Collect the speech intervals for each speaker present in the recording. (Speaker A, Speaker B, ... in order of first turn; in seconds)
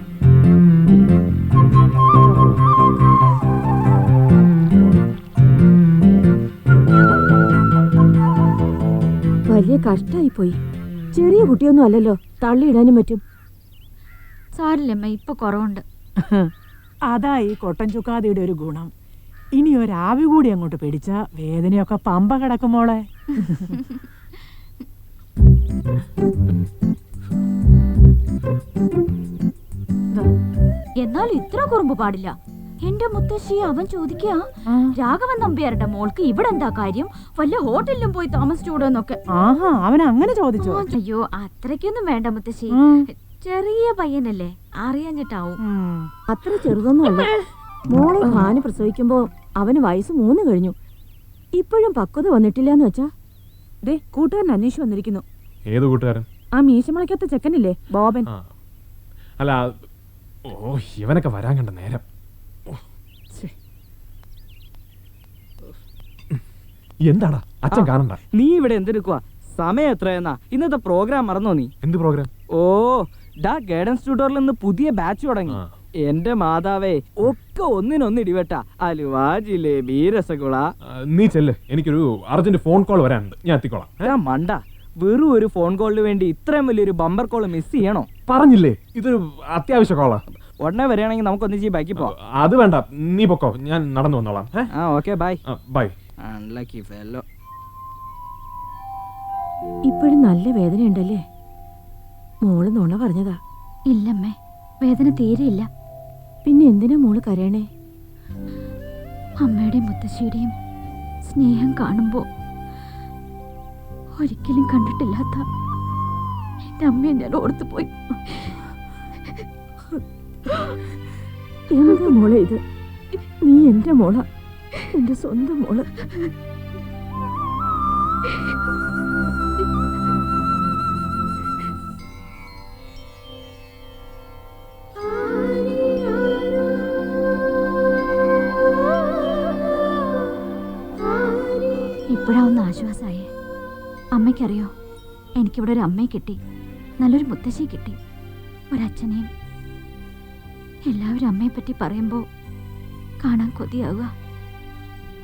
Speaker A: 9.5-10.6, 11.1-13.2, 46.3-47.3, 47.9-50.7, 51.6-53.1, 53.8-55.2, 56.5-58.3, 99.9-101.2, 102.4-103.4, 106.4-107.6, 121.7-122.6, 123.4-124.2, 124.9-125.9
Speaker B: 14.5-15.8, 23.7-24.0, 31.0-34.4, 34.9-39.2, 40.6-45.6, 103.9-105.7, 109.4-110.5, 111.2-112.2, 114.2-115.4, 116.8-118.6, 142.1-143.3, 144.1-144.7, 145.4-146.4, 147.0-147.9, 148.7-149.3, 150.9-152.2, 153.2-154.1
Speaker C: 17.1-18.9, 19.6-23.7, 39.4-40.8, 42.8-43.0, 45.6-46.1
Speaker D: 55.7-56.2, 60.5-62.0, 67.1-68.2, 71.8-72.3, 81.1-84.1, 88.3-90.2, 92.0-94.6, 95.5-95.9
Speaker E: 67.7-71.7, 72.5-80.7, 84.0-88.1, 90.6-92.1, 94.8-95.4, 96.2-97.2